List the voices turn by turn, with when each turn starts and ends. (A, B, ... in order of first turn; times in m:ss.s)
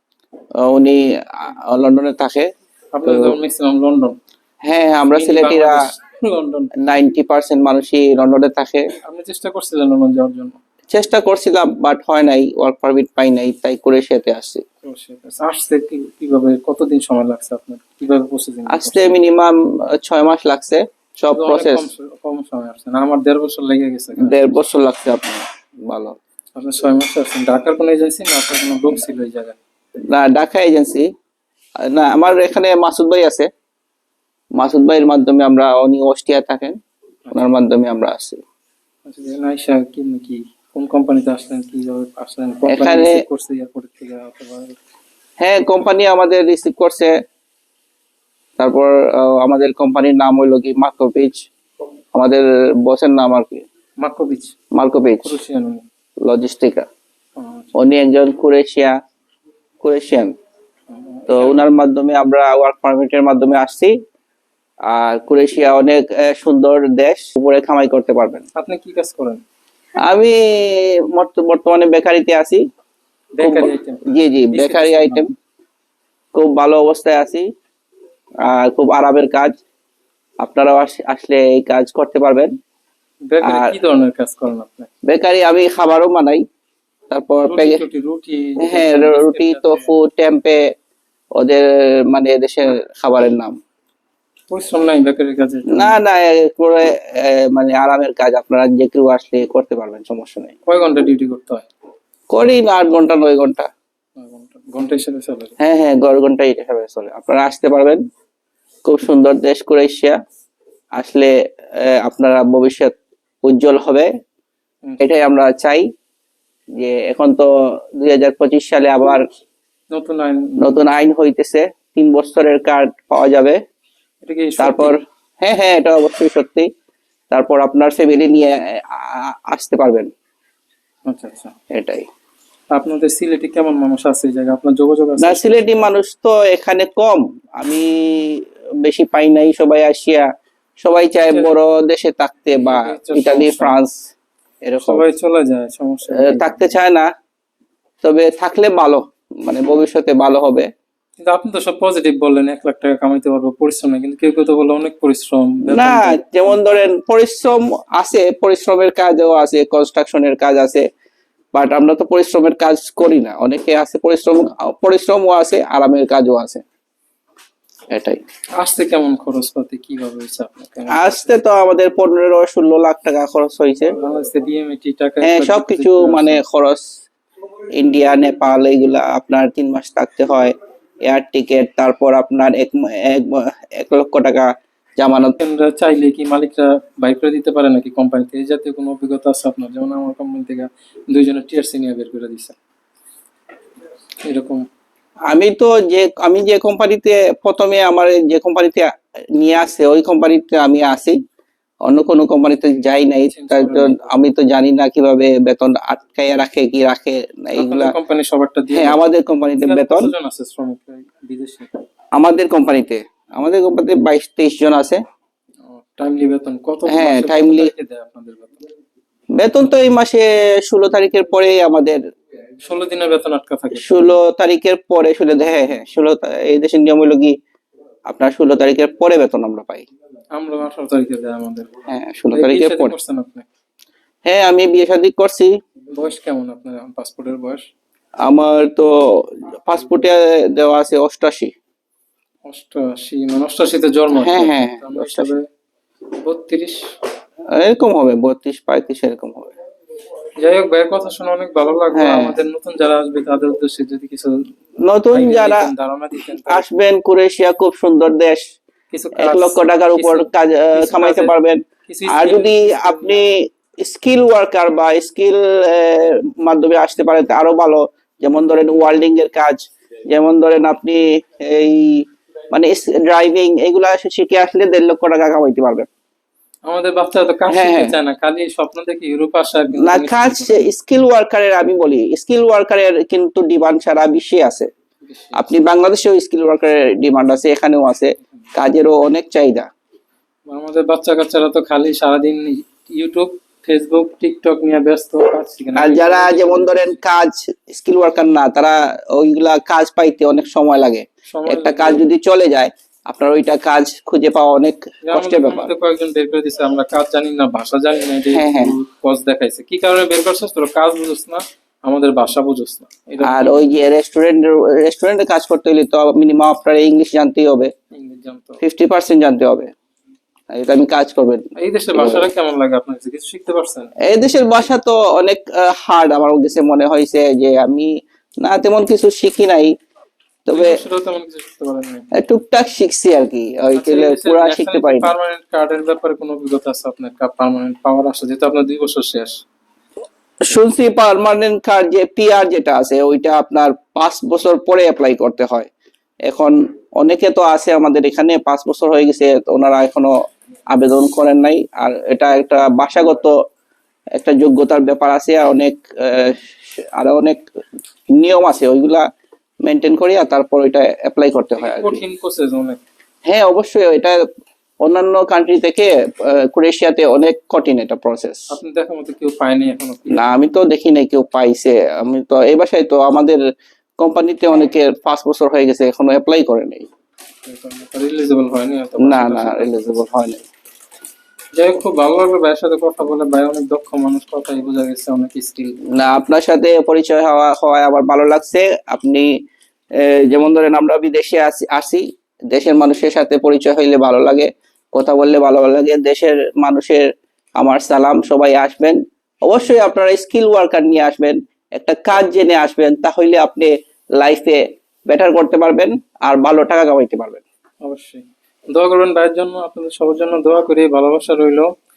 0:00.6-0:02.4 A
0:02.9-0:04.2 B
0:03.0-0:03.4 A
0:04.7-0:05.8 A
0:05.1-0:06.7 B
0:06.8-0:08.8 A
0:09.0-0:10.6 B
0:10.9-0:14.6 A
0:14.8-0:19.2 B
0:18.7-0:21.8 A
0:21.3-0:24.6 B
0:24.2-0:26.1 A
0:26.6-0:29.6 B
0:30.1-0:31.0 A
0:31.9-0:33.5 A
0:34.6-0:36.7 A
0:37.3-0:37.6 B
0:37.3-0:38.4 A
0:39.0-0:44.7 B
0:42.7-0:43.2 A
0:45.4-0:47.1 A
0:48.6-0:51.5 A
0:52.1-0:53.6 A
0:54.0-0:54.5 B
0:54.7-0:55.3 A
0:55.2-0:55.8 B
0:56.2-0:56.8 A
0:57.4-0:57.7 B
0:57.8-0:58.9 A
0:59.8-1:00.3 A
1:00.9-1:01.6 B
1:01.3-1:03.9 A
1:04.9-1:08.4 A
1:08.6-1:09.4 B
1:10.0-1:12.6 A
1:13.3-1:15.2 B
1:13.4-1:15.3 A
1:16.3-1:17.4 A
1:18.4-1:19.5 A
1:20.4-1:22.5 A
1:23.3-1:24.9 B
1:23.4-1:23.7 A
1:25.1-1:26.4 A
1:27.1-1:27.8 A
1:27.4-1:30.0 B
1:28.6-1:30.6 A
1:31.4-1:33.5 A
1:34.5-1:36.0 B
1:35.7-1:40.5 A
1:40.6-1:41.7 B
1:42.3-1:43.7 A
1:44.2-1:45.5 B
1:45.6-1:48.0 A
1:48.8-1:50.1 A
1:51.0-1:51.3 A
1:51.8-1:54.1 A
1:55.0-1:55.8 A
1:56.8-1:57.5 A
1:58.0-1:59.2 A
1:59.9-2:00.8 B
2:00.6-2:03.6 A
2:04.2-2:04.9 B
2:04.6-2:06.7 A
2:07.3-2:10.1 A
2:11.1-2:11.5 B
2:11.7-2:12.0 A
2:12.7-2:15.9 B
2:15.2-2:20.2 A
2:20.8-2:24.0 A
2:21.3-2:21.6 B
2:22.6-2:23.7 B
2:24.6-2:25.0 A
2:24.8-2:26.6 B
2:26.1-2:27.0 A
2:28.0-2:30.7 A
2:31.2-2:36.8 B
2:35.6-2:40.8 A
2:41.5-2:46.6 A
2:47.9-2:48.2 A
2:48.6-2:51.4 B
2:50.9-2:54.0 A
2:54.0-2:56.4 B
2:55.2-2:56.8 A
2:57.8-3:00.5 A
3:01.0-3:04.5 A
3:05.0-3:05.4 A
3:05.4-3:12.6 B
3:14.2-3:14.6 B
3:15.3-3:21.2 A
3:21.8-3:27.9 A
3:23.3-3:24.1 B
3:27.6-3:29.0 B
3:28.7-3:30.1 A
3:29.6-3:31.7 B
3:32.2-3:35.0 A
3:35.7-3:38.6 B
3:36.9-3:37.7 A
3:39.3-3:42.0 A
3:42.6-3:44.2 B
3:43.7-3:47.3 A
3:48.1-3:49.8 A
3:50.4-3:51.7 B
3:51.9-3:52.9 A
3:52.3-3:53.4 B
3:54.2-3:55.5 A
3:55.9-3:57.6 B
3:58.2-4:01.5 A
4:02.4-4:05.4 B
4:04.2-4:05.3 A
4:06.2-4:06.8 B
4:07.5-4:09.5 A
4:10.4-4:14.5 B
4:11.9-4:12.4 A
4:14.8-4:15.7 A
4:15.1-4:16.6 B
4:16.4-4:18.4 A
4:18.9-4:21.3 B
4:19.2-4:35.9 A
4:21.9-4:23.2 B
4:36.7-4:40.7 B
4:37.5-4:37.9 A
4:39.8-4:44.7 A
4:45.0-4:45.5 B
4:45.3-4:49.7 A
4:50.5-4:57.0 B
4:55.7-5:05.7 A
5:01.3-5:02.0 B
5:05.0-5:13.8 B
5:08.3-5:08.7 A
5:13.2-5:17.7 A
5:17.9-5:18.6 B
5:18.6-5:19.7 A
5:20.5-5:22.2 A
5:21.6-5:23.9 B
5:24.0-5:27.9 A
5:28.4-5:29.7 A
5:30.5-5:30.8 A
5:30.5-5:32.1 B
5:32.2-5:35.1 A
5:33.7-5:39.4 B
5:40.4-5:45.7 A
5:46.3-5:50.1 A
5:50.7-5:53.3 A
5:54.2-5:57.4 A
5:58.2-5:59.0 A
5:59.6-6:02.0 A
6:01.6-6:02.8 B
6:03.2-6:04.1 A
6:04.8-6:08.4 A
6:08.5-6:10.3 B
6:10.1-6:13.4 A
6:14.0-6:16.9 A
6:17.4-6:20.0 B
6:19.0-6:20.4 A
6:21.5-6:25.8 B
6:25.9-6:29.3 A
6:30.0-6:37.1 A
6:37.6-6:47.4 A
6:47.8-6:51.7 B